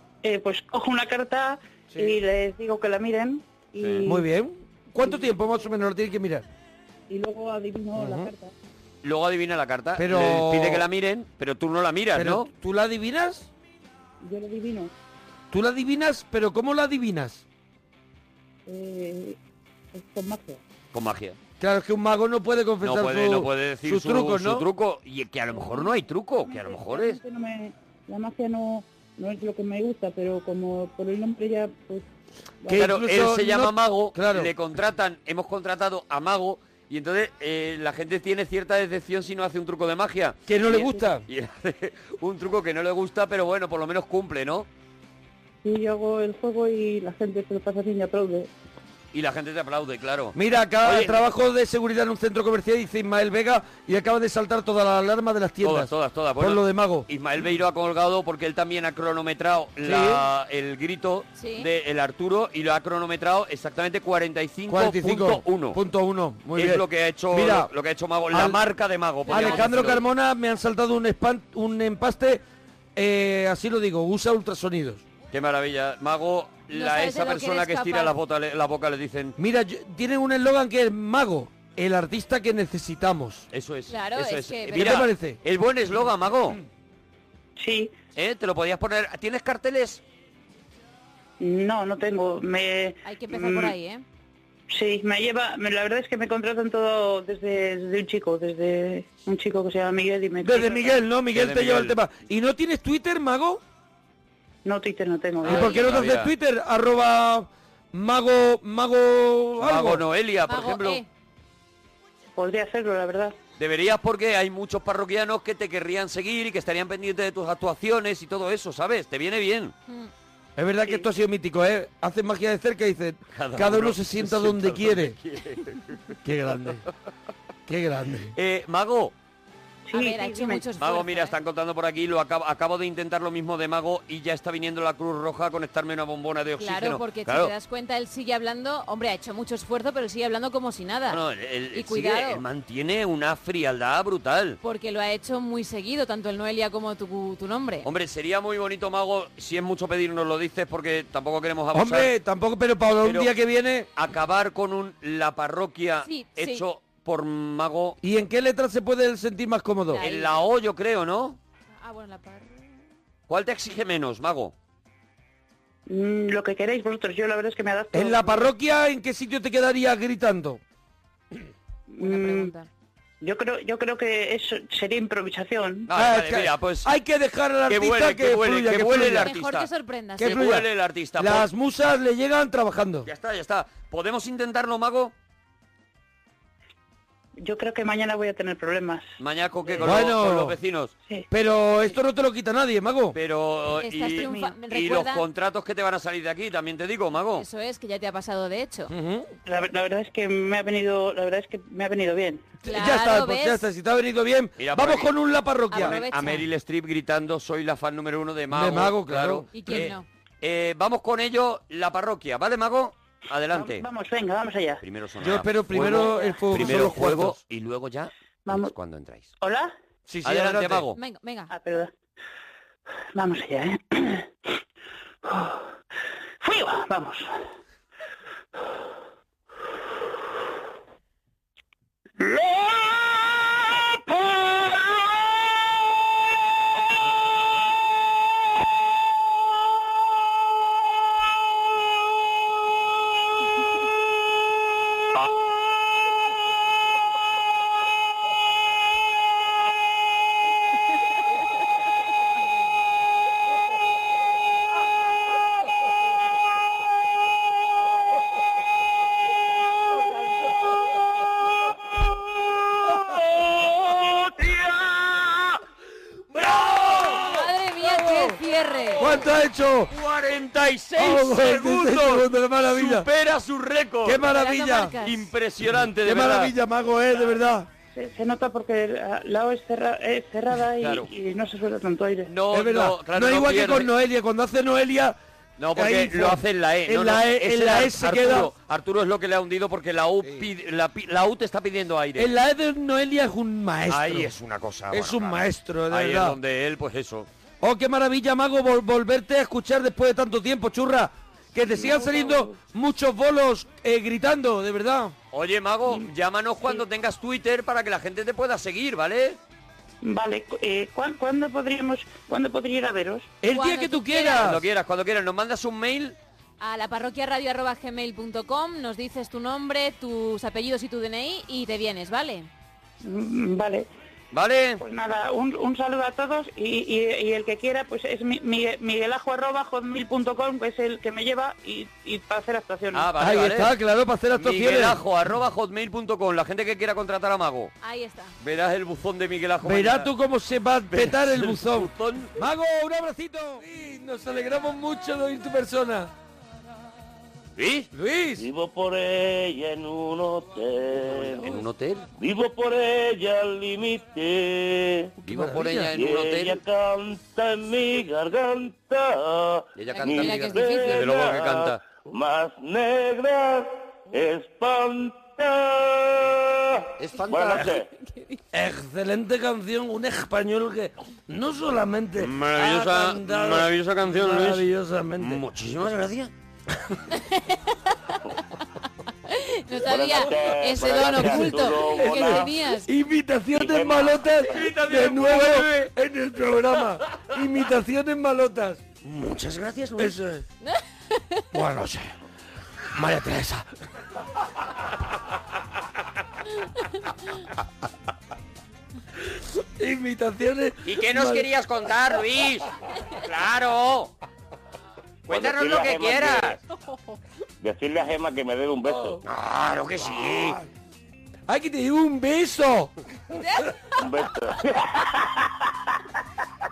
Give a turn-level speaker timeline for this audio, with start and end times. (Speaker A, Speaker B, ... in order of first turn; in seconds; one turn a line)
Speaker A: 0.2-4.3
Speaker B: 1.9-2.2
Speaker B: 4.0-6.4
Speaker A: 5.0-5.3
Speaker A: 7.1-8.5
Speaker B: 8.0-8.3
Speaker C: 9.0-12.5
Speaker B: 9.9-10.8
Speaker B: 12.1-13.5
Speaker A: 14.2-14.9
Speaker B: 15.5-17.4
Speaker A: 18.7-19.4
Speaker A: 19.9-20.6
Speaker C: 20.9-21.4
Speaker B: 21.6-24.6
Speaker C: 22.8-27.2
Speaker A: 25.5-32.1
Speaker B: 32.7-34.5
Speaker C: 32.7-44.7
Speaker B: 40.5-41.2
Speaker A: 45.6-48.5
Speaker C: 49.1-51.2
Speaker B: 50.3-57.1
Speaker C: 55.6-65.8
Speaker B: 59.8-60.2
Speaker D: 61.4-61.7
Speaker B: 64.7-67.7
Speaker C: 66.5-70.0
Speaker B: 68.3-68.6
Speaker D: 69.3-69.8
Speaker B: 69.3-72.4
Speaker B: 73.0-75.0
Speaker C: 75.3-79.3
Speaker D: 76.7-78.1
Speaker B: 79.4-83.5
Speaker C: 83.5-86.6
Speaker D: 83.9-85.1
Speaker B: 84.7-85.4
Speaker A: 87.6-87.9
Speaker C: 88.1-90.0
Speaker A: 91.4-93.7
Speaker D: 93.0-94.0
Speaker A: 94.7-101.0
Speaker B: 100.4-103.6
Speaker C: 101.3-102.0
Speaker A: 104.6-105.8
Speaker C: 105.4-106.3
Speaker B: 105.4-110.0
Speaker C: 109.6-111.0
Speaker D: 110.5-111.1
Speaker A: 112.3-113.3
Speaker C: 113.6-119.7
Speaker B: 120.6-125.2
Speaker C: 123.3-126.1
Speaker B: 126.2-126.8
Speaker B: 127.7-128.3
Speaker C: 128.3-129.1
Speaker A: 129.8-130.6
Speaker D: 129.9-131.3
Speaker C: 130.8-137.5
Speaker D: 136.6-141.2
Speaker C: 141.1-144.6
Speaker D: 141.7-142.4
Speaker D: 144.6-147.8
Speaker C: 147.8-152.1
Speaker B: 151.7-153.9
Speaker C: 153.0-153.3
Speaker C: 153.9-158.0
Speaker D: 156.0-156.6
Speaker B: 158.0-160.0
Speaker D: 159.9-160.4
Speaker C: 160.0-161.4
Speaker D: 161.8-162.7
Speaker C: 163.3-164.5
Speaker A: 165.9-168.5
Speaker B: 167.9-170.6
Speaker A: 171.9-172.5
Speaker D: 172.0-172.7
Speaker A: 173.2-175.9
Speaker C: 175.9-176.9
Speaker B: 175.9-179.3
Speaker C: 177.7-179.7
Speaker D: 179.2-180.4
Speaker B: 180.2-183.1
Speaker C: 180.2-181.5
Speaker C: 183.0-185.1
Speaker A: 187.4-189.0
Speaker C: 189.2-190.9
Speaker A: 189.7-190.0
Speaker B: 189.8-190.6
Speaker B: 191.3-193.2
Speaker C: 193.1-197.4
Speaker D: 193.8-195.2
Speaker A: 194.2-194.5
Speaker D: 197.4-198.9
Speaker B: 198.9-199.3
Speaker A: 199.4-202.4
Speaker B: 202.6-206.0
Speaker D: 202.6-203.6
Speaker C: 204.6-205.1
Speaker D: 205.7-206.4
Speaker C: 205.7-213.8
Speaker B: 208.5-209.9
Speaker D: 209.5-210.1
Speaker A: 213.5-214.8
Speaker C: 214.8-219.3
Speaker B: 215.2-217.4
Speaker A: 218.4-218.7
Speaker A: 219.4-219.7
Speaker B: 220.1-220.8
Speaker C: 220.2-221.0
Speaker D: 220.9-221.5
Speaker A: 221.5-221.9
Speaker A: 223.1-224.3
Speaker A: 225.2-225.7
Speaker A: 226.4-227.3
Speaker E: 262.8-264.4
Speaker B: 266.3-268.4
Speaker C: 266.8-267.1
Speaker D: 267.1-269.1
Speaker B: 268.9-269.9
Speaker C: 269.9-274.2
Speaker B: 271.0-273.1
Speaker B: 274.0-275.0
Speaker D: 274.3-275.3
Speaker C: 275.0-276.5
Speaker B: 275.8-277.7
Speaker A: 277.9-282.3
Speaker C: 280.8-281.1
Speaker C: 282.3-283.9
Speaker B: 282.5-285.2
Speaker C: 285.6-292.3
Speaker B: 285.7-288.5
Speaker B: 290.2-290.5
Speaker B: 292.1-294.3
Speaker C: 293.9-297.3
Speaker B: 294.9-296.4
Speaker B: 297.6-305.1
Speaker A: 301.8-302.5
Speaker C: 305.3-309.4
Speaker A: 310.0-313.3
Speaker B: 313.4-314.6
Speaker D: 313.5-314.5
Speaker C: 314.4-316.2
Speaker D: 316.6-322.5
Speaker A: 323.0-323.9
Speaker C: 324.3-324.8
Speaker A: 324.8-333.1
Speaker C: 332.9-333.7
Speaker B: 333.2-335.0
Speaker C: 334.4-337.7
Speaker D: 337.8-338.3
Speaker C: 338.4-340.1
Speaker B: 339.6-346.1
Speaker C: 340.9-342.3
Speaker C: 347.6-347.9
Speaker B: 347.9-348.4
Speaker E: 348.4-351.5
Speaker C: 351.1-352.1
Speaker E: 352.2-355.1
Speaker B: 355.2-355.9
Speaker C: 355.2-356.6
Speaker E: 355.9-367.9
Speaker C: 359.7-361.8
Speaker D: 359.9-361.2
Speaker C: 367.0-367.7
Speaker D: 368.0-368.4
Speaker B: 368.5-375.4
Speaker C: 372.2-374.6
Speaker C: 375.2-376.3
Speaker D: 377.1-378.1
Speaker D: 379.3-382.9
Speaker E: 379.8-382.5
Speaker B: 381.0-388.8
Speaker E: 383.5-384.2
Speaker C: 384.4-385.9
Speaker C: 389.0-390.1
Speaker B: 390.0-390.4
Speaker D: 390.6-391.4
Speaker B: 391.5-392.1
Speaker B: 392.9-393.7
Speaker B: 399.4-401.4
Speaker C: 400.8-402.7
Speaker C: 403.2-404.1
Speaker C: 405.3-406.6
Speaker E: 405.3-406.6
Speaker E: 407.6-409.2
Speaker B: 408.9-409.2
Speaker C: 409.2-410.6
Speaker B: 410.1-410.6
Speaker B: 411.5-412.9
Speaker E: 414.0-415.5